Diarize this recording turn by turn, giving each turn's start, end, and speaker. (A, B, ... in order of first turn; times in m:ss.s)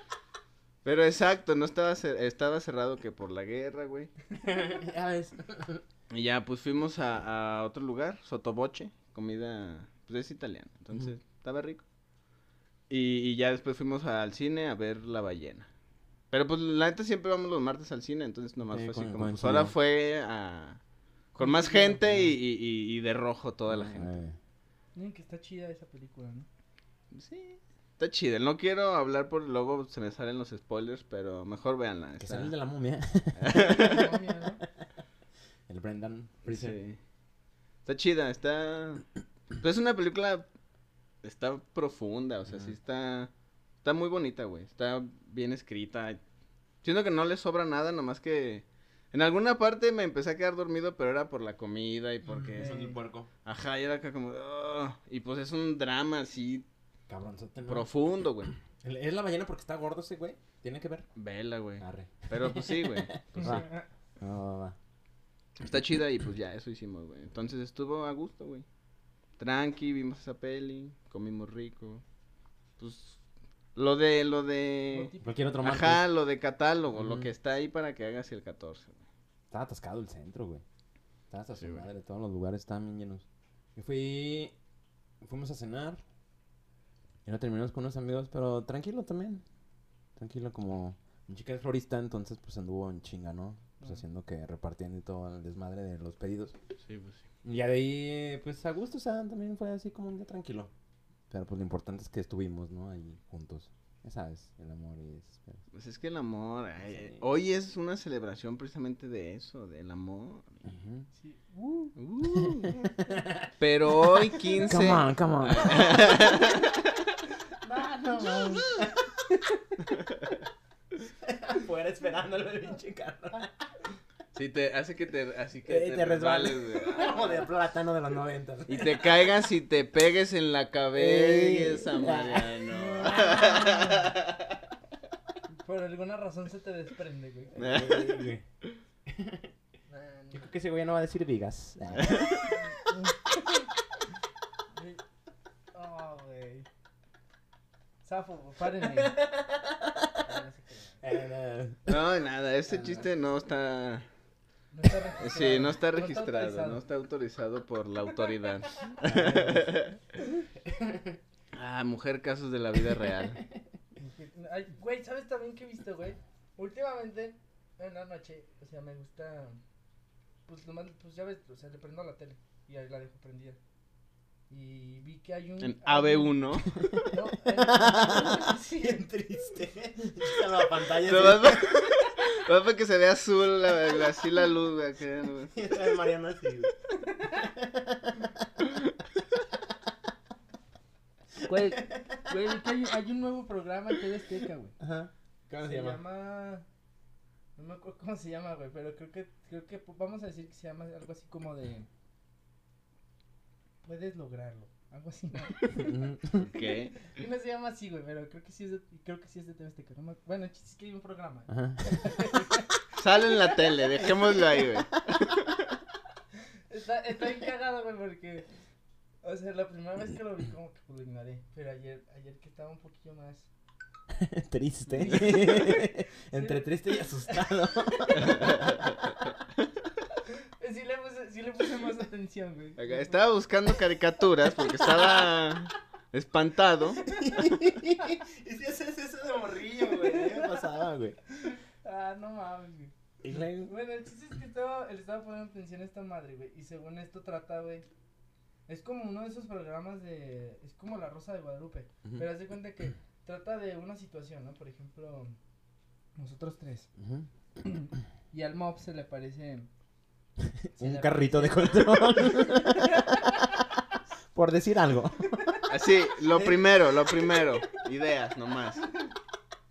0:00.8-0:04.1 A
0:04.4-0:05.8 B
0:06.1-0:11.8 A
0:12.9-0:15.7 A
0:16.3-0:20.8 A
0:18.7-0:19.7 B
0:21.4-0:24.2 A
0:21.4-0:22.2 C
0:23.7-0:24.4 B
0:25.0-0:26.5 C
0:27.1-0:32.5 A
0:32.2-0:34.0 B
0:33.4-0:34.0 A
0:33.5-0:34.6 C
0:35.7-0:36.8 B
0:36.4-0:37.0 A
0:37.8-0:40.5 A
0:41.2-0:43.3 A
0:42.5-0:42.8 B
0:43.8-0:46.2 A
0:46.8-0:52.8 A
0:52.3-0:53.3 B
0:52.6-0:53.0 C
0:53.4-0:56.7 A
0:57.1-0:57.9 B
0:57.7-0:58.5 A
0:58.8-1:01.1 B
1:01.2-1:03.7 A
1:01.8-1:03.7 B
1:03.4-1:03.8 C
1:04.2-1:04.8 B
1:05.6-1:08.6 A
1:09.4-1:12.0 A
1:12.8-1:13.2 A
1:13.8-1:15.1 A
1:14.9-1:15.7 C
1:15.2-1:16.1 B
1:15.6-1:19.0 A
1:16.9-1:17.3 B
1:19.5-1:20.6 B
1:21.3-1:24.6 B
1:21.6-1:21.9 A
1:25.2-1:26.0 B
1:27.2-1:29.4 B
1:30.2-1:36.6 B
1:36.8-1:37.2 A
1:37.4-1:40.7 B
1:41.3-1:45.6 B
1:45.7-1:50.7 A
1:46.9-1:47.2 B
1:50.6-1:51.1 B
1:51.1-1:52.0 C
1:52.0-1:52.7 A
1:52.2-1:56.6 B
1:53.6-1:56.8 A
1:57.6-1:58.7 C
1:57.7-1:59.4 B
2:01.1-2:03.6 B
2:04.3-2:07.3 A
2:05.7-2:09.1 B
2:08.7-2:14.4 A
2:10.9-2:12.7 B
2:12.7-2:14.2 C
2:15.5-2:17.8 C
2:17.6-2:18.3 A
2:17.6-2:18.4 B
2:19.1-2:19.5 B
2:19.9-2:20.5 C
2:20.3-2:22.5 B
2:22.1-2:22.4 A
2:22.5-2:23.7 C
2:24.7-2:25.0 C
2:25.7-2:26.7 C
2:28.0-2:29.2 C
2:29.0-2:30.2 B
2:30.2-2:31.0 C
2:31.0-2:32.1 B
2:31.9-2:34.0 A
2:32.7-2:33.1 C
2:34.7-2:36.8 C
2:35.2-2:40.0 A
2:38.9-2:39.7 C
2:39.0-2:39.5 B
2:40.6-2:41.2 B
2:41.5-2:43.4 A
2:44.0-2:49.6 C
2:50.5-2:53.6 C
2:54.5-2:59.1 C
2:55.6-2:56.8 A
2:56.7-3:01.8 B
3:01.0-3:05.5 A
3:05.5-3:06.7 B
3:07.0-3:07.5 C
3:07.4-3:08.5 B
3:11.4-3:12.4 B
3:11.5-3:14.8 C
3:14.8-3:16.0 B
3:15.6-3:16.7 C
3:17.6-3:21.9 C
3:23.8-3:26.0 C
3:25.7-3:26.5 B
3:26.4-3:27.1 A
3:27.0-3:32.9 C
3:31.5-3:32.4 B
3:33.0-3:35.6 A
3:36.7-3:38.5 C
3:39.2-3:43.5 C
3:44.1-3:48.8 B
3:44.9-3:48.6 C
3:48.2-3:49.0 A
3:50.3-3:53.2 C
3:52.8-3:57.0 A
3:57.0-4:01.2 B
3:59.9-4:00.7 C
4:01.4-4:02.9 C
4:03.2-4:03.7 B
4:03.6-4:07.9 C
4:08.7-4:15.4 C
4:16.2-4:16.9 C
4:17.0-4:17.3 B
4:17.6-4:19.7 C
4:20.4-4:25.6 B
4:20.8-4:23.6 C
4:25.7-4:28.9 A